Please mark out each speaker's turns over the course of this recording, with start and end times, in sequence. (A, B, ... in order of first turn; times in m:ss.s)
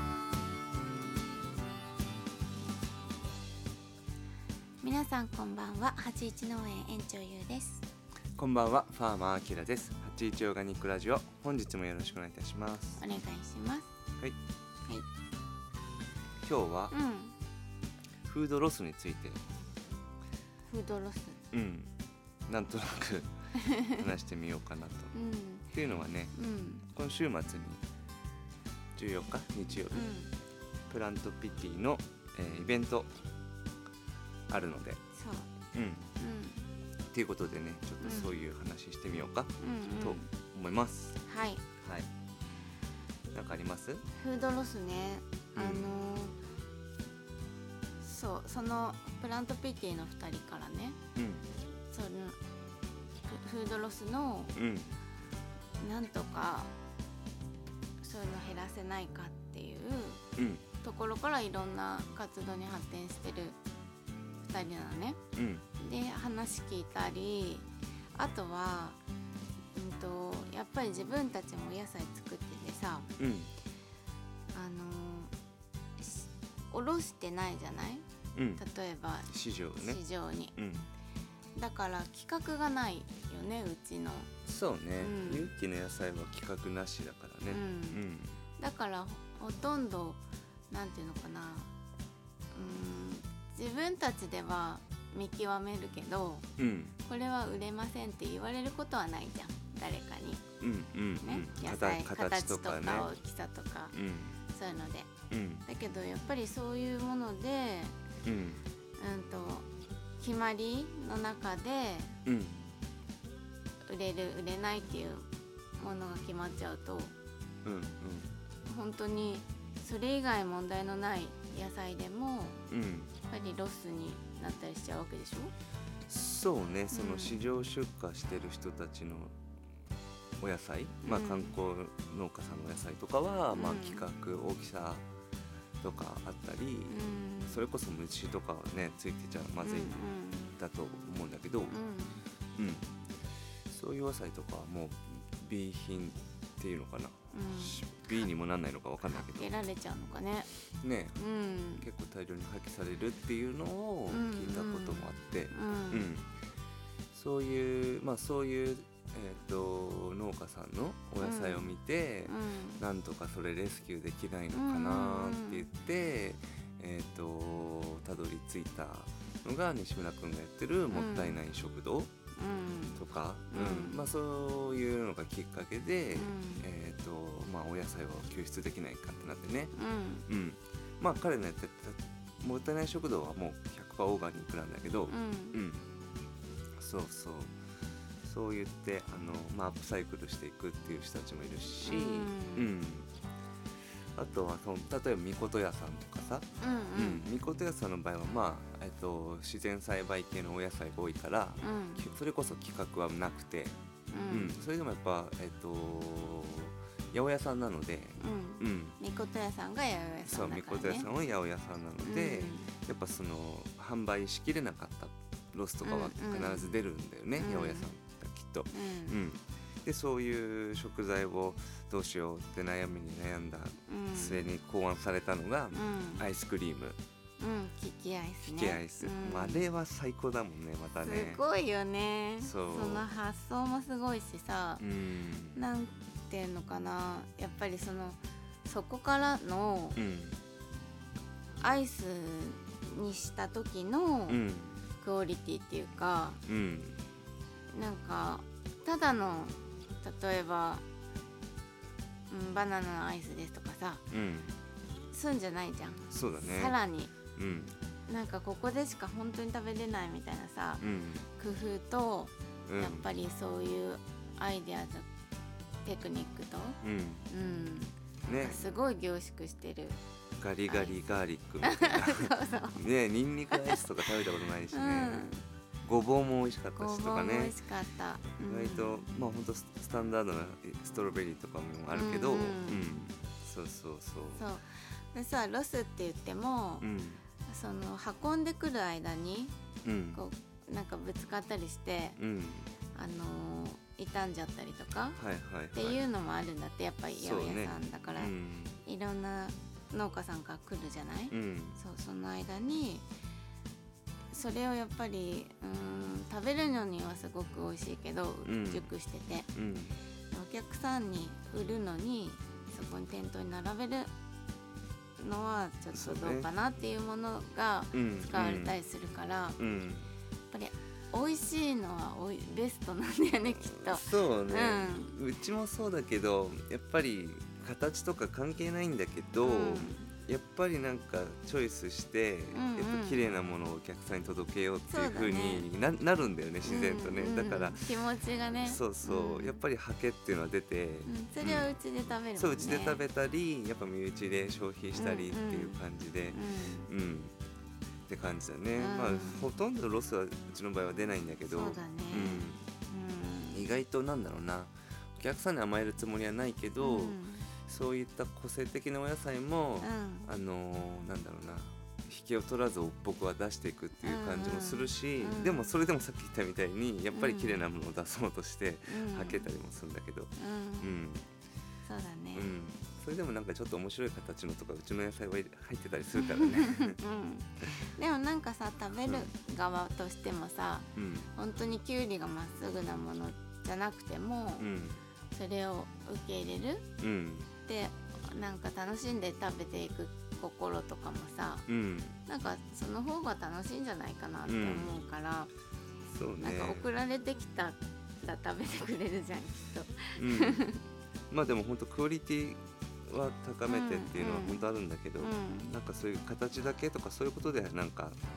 0:04.8-0:07.8 A
0:08.4-0:13.0 B
0:13.0-0:13.9 A
0:16.4-0:16.9 B
0:16.9-0:17.3 A
0:18.2-0:19.4 B
0:20.7-0:21.4 A
0:21.5-0:21.9 B
0:22.5-0:23.3 B
0:23.6-0:24.0 A
0:23.9-0:25.1 B
0:25.1-0:25.7 A
0:25.7-0:26.3 B
0:26.3-0:26.9 A
0:26.9-0:27.8 B
0:28.9-0:30.1 B
0:29.9-0:30.3 A
0:30.9-0:33.1 B
0:34.5-0:35.0 B
0:35.1-0:35.5 A
0:35.7-0:36.0 B
0:36.2-0:36.6 A
0:37.1-0:41.2 B
0:38.0-0:38.3 A
0:39.6-0:40.3 A
0:41.2-0:41.6 A
0:41.8-0:42.1 B
0:43.3-0:44.0 B
0:44.2-0:46.4 A
0:45.5-0:46.0 B
0:48.0-0:51.0 A
0:51.2-0:51.4 B
0:51.9-0:52.4 A
0:53.2-0:54.5 A
0:54.5-0:54.9 B
0:55.8-0:56.7 A
0:58.0-1:00.2 A
1:00.4-1:00.6 B
1:00.8-1:03.6 A
1:04.4-1:05.2 A
1:05.4-1:05.6 B
1:05.8-1:09.0 A
1:09.7-1:13.1 A
1:13.2-1:13.5 B
1:14.5-1:15.3 A
1:16.0-1:18.0 A
1:18.3-1:18.6 B
1:18.6-1:20.5 A
1:19.3-1:20.0 B
1:20.6-1:20.9 B
1:21.6-1:24.3 A
1:24.4-1:28.3 B
1:25.0-1:25.5 A
1:27.5-1:28.0 A
1:28.6-1:31.7 A
1:32.5-1:36.4 A
1:36.6-1:37.0 B
1:37.0-1:40.4 A
1:40.6-1:43.1 B
1:41.2-1:43.9 A
1:43.9-1:44.4 B
1:44.5-1:45.1 A
1:45.3-1:45.6 B
1:45.6-1:47.9 A
1:48.2-1:48.6 B
1:49.0-1:49.7 A
1:50.2-1:52.2 A
1:52.2-1:52.7 B
1:53.9-1:55.2 A
1:55.8-1:57.1 A
1:57.6-1:58.3 B
1:58.6-2:02.6 A
2:02.7-2:03.1 B
2:03.2-2:05.5 A
2:06.1-2:09.4 B
2:06.9-2:07.4 A
2:10.4-2:15.0 B
2:11.0-2:11.5 A
2:13.5-2:14.0 A
2:15.8-2:20.0 B
2:16.9-2:17.6 A
2:19.6-2:20.5 A
2:20.5-2:21.7 B
2:21.7-2:22.2 A
2:22.6-2:22.9 B
2:23.7-2:29.6 B
2:27.3-2:28.3 A
2:29.0-2:30.5 A
2:30.8-2:31.2 B
2:31.2-2:31.8 A
2:31.8-2:36.3 B
2:34.1-2:36.1 A
2:37.1-2:52.1 B
2:41.2-2:41.7 A
2:42.2-2:42.8 A
2:44.5-2:45.6 A
2:50.9-2:51.4 A
2:52.4-2:54.1 A
2:53.0-2:59.7 B
2:56.1-2:56.6 A
2:59.7-3:00.2 A
3:00.3-3:05.9 B
3:05.1-3:05.6 A
3:06.8-3:07.5 B
3:08.2-3:13.1 B
3:11.8-3:12.7 A
3:14.2-3:23.7 B
3:16.6-3:17.3 A
3:21.6-3:22.0 A
3:24.1-3:24.5 A
3:24.3-3:29.0 B
3:28.2-3:31.1 A
3:30.3-3:47.0 B
3:32.0-3:32.7 A
3:35.8-3:36.8 A
3:37.4-3:37.9 A
3:38.7-3:39.2 A
3:43.9-3:44.5 A
3:45.7-3:46.2 A
3:47.4-3:49.7 A
3:48.4-3:51.4 B
3:51.0-3:54.8 A
3:52.4-3:53.0 B
3:54.8-3:55.6 B
3:55.5-4:00.0 A
4:00.0-4:00.4 B
4:01.6-4:04.4 A
4:04.3-4:04.8 B
4:05.0-4:06.4 A
4:06.5-4:07.0 B
4:07.7-4:10.8 A
4:12.3-4:14.0 A
4:14.1-4:14.5 B
4:15.1-4:17.1 A
4:16.1-4:16.8 B
4:17.3-4:17.7 B
4:18.1-4:20.8 A
4:20.8-4:21.3 B
4:21.4-4:25.1 A
4:22.7-4:23.1 B
4:25.8-4:30.0 A
4:26.8-4:27.3 B
4:28.2-4:28.6 B
4:30.4-4:35.3 B
4:30.7-4:31.0 A
4:31.6-4:32.8 A
4:33.5-4:33.8 A
4:34.7-4:35.4 A
4:35.8-4:37.5 B
4:36.8-4:39.0 A
4:38.4-4:44.4 B
4:41.9-4:43.0 A
4:44.4-4:46.9 A
4:46.8-4:47.2 B
4:47.4-4:49.5 A
4:49.8-4:50.2 B
4:50.1-4:52.2 A
4:52.2-4:52.7 B
4:52.9-4:55.2 A
4:55.2-4:56.0 B
4:55.7-4:58.3 A
4:57.1-4:58.8 B
4:58.8-5:03.1 A
5:01.3-5:01.8 B
5:04.3-5:09.5 A
5:08.4-5:08.9 B
5:09.5-5:09.9 B
5:10.3-5:14.1 A
5:15.2-5:19.6 A
5:15.9-5:16.5 B
5:17.9-5:18.7 B
5:19.6-5:20.1 B
5:20.5-5:25.2 A
5:23.6-5:37.9 B
5:29.4-5:30.1 A
5:32.5-5:33.3 A
5:34.9-5:35.7 A
5:36.6-5:39.6 A
5:38.6-5:41.7 B
5:41.0-5:43.0 A
5:42.4-5:47.3 B
5:44.9-5:46.9 A
5:48.1-5:52.6 B
5:48.7-5:49.6 A
5:51.5-5:53.8 A
5:53.5-6:11.2 B
5:56.8-5:57.5 A
5:59.8-6:00.3 A
6:04.0-6:05.8 A
6:07.1-6:07.6 A
6:08.9-6:09.5 A
6:10.4-6:10.9 A
6:11.8-6:12.5 A
6:12.3-6:17.0 B
6:16.2-6:24.7 A
6:21.0-6:21.3 B
6:24.6-6:25.0 B
6:25.3-6:26.9 A
6:27.0-6:27.5 B
6:27.6-6:31.6 A
6:31.7-6:32.2 B
6:32.2-6:35.5 A
6:34.4-6:35.0 B
6:36.1-6:36.9 B
6:36.4-6:40.8 A
6:40.2-6:40.8 B
6:41.3-6:48.2 B
6:43.7-6:44.6 A
6:45.2-6:45.7 A